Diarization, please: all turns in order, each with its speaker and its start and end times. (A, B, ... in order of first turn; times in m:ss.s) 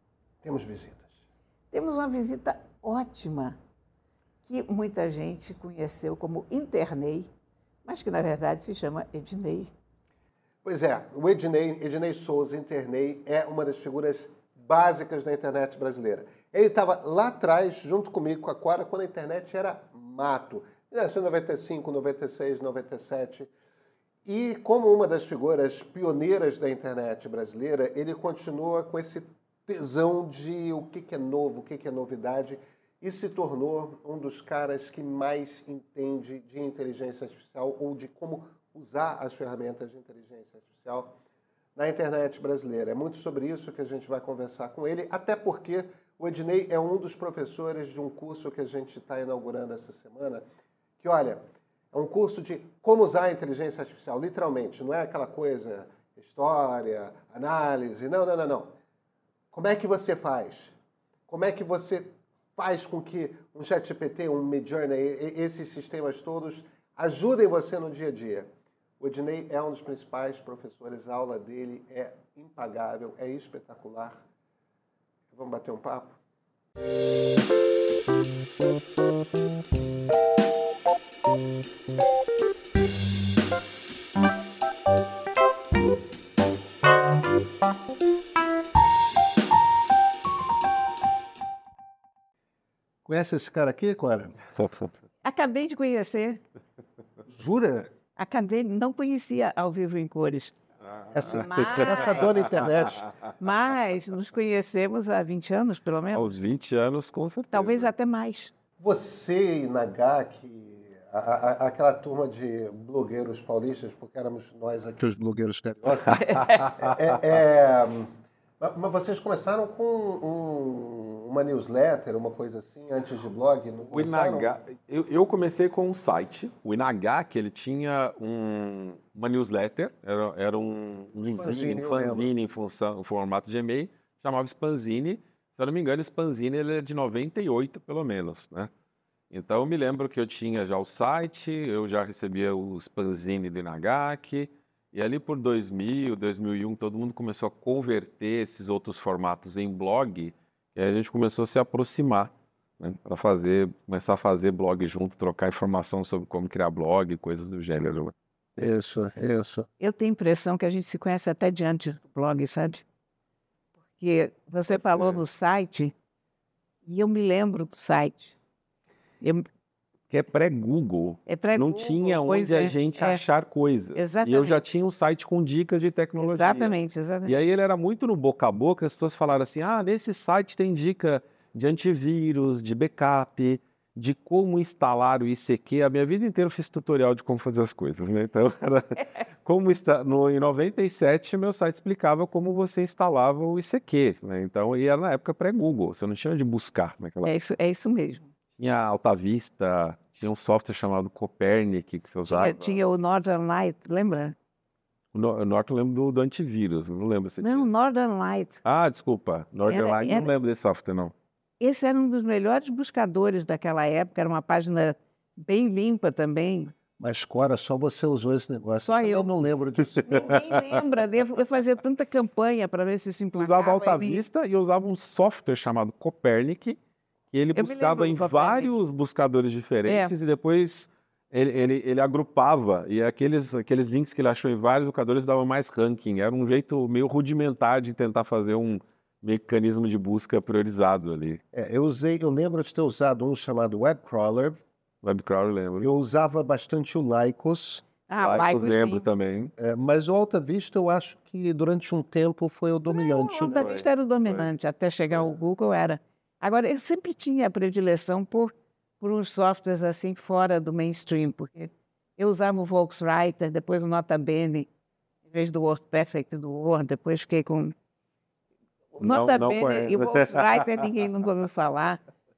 0:00.4-0:01.1 A
0:01.7-0:03.6 B
0:04.4-0:07.3 B
0:07.8-0:09.7 B
0:10.6-0:23.5 A
0:24.2-0:41.2 A
0:41.8-0:50.4 A
0:51.0-0:51.4 A
0:51.9-0:58.7 A
0:59.5-1:00.7 A
1:01.3-1:08.5 A
1:09.0-1:14.2 A
1:15.3-1:16.2 A
1:33.0-1:34.4 A
1:35.2-1:36.4 B
1:37.3-1:37.9 A
1:38.2-1:40.6 B
1:41.1-1:43.1 A
1:41.2-1:41.8 C
1:41.2-1:42.3 B
1:43.4-1:46.4 B
1:46.1-1:47.9 C
1:47.5-1:48.5 B
1:48.8-2:04.5 A
1:56.2-1:56.6 B
1:56.4-1:57.0 C
2:03.9-2:18.7 C
2:11.3-2:12.3 A
2:19.3-2:38.1 C
2:38.6-2:39.7 A
2:39.8-2:42.8 B
2:44.0-2:45.9 B
2:44.7-2:45.2 C
2:46.9-2:48.4 B
2:49.2-2:49.5 B
2:50.1-2:56.8 C
2:51.3-2:53.2 B
2:54.0-2:54.6 B
2:56.2-2:57.4 B
2:57.3-3:17.3 C
3:17.2-3:18.3 B
3:18.6-3:22.8 C
3:22.3-3:24.4 B
3:25.1-3:27.7 C
3:27.4-3:28.6 B
3:28.6-3:31.1 C
3:29.7-3:30.3 B
3:31.6-3:36.7 B
3:37.0-3:40.4 A
3:38.8-3:39.3 B
3:40.0-3:44.2 B
3:40.4-3:40.8 C
3:43.4-3:46.8 C
3:47.3-4:01.4 C
3:47.6-3:48.8 B
3:49.9-3:50.1 B
4:01.5-4:04.6 A
4:05.0-4:05.9 C
4:05.8-4:07.9 A
4:08.1-4:09.0 B
4:08.2-4:09.5 C
4:09.6-4:13.6 A
4:12.9-4:24.7 B
4:13.5-4:14.5 C
4:25.3-4:27.7 B
4:28.9-4:32.0 B
4:29.0-4:30.9 C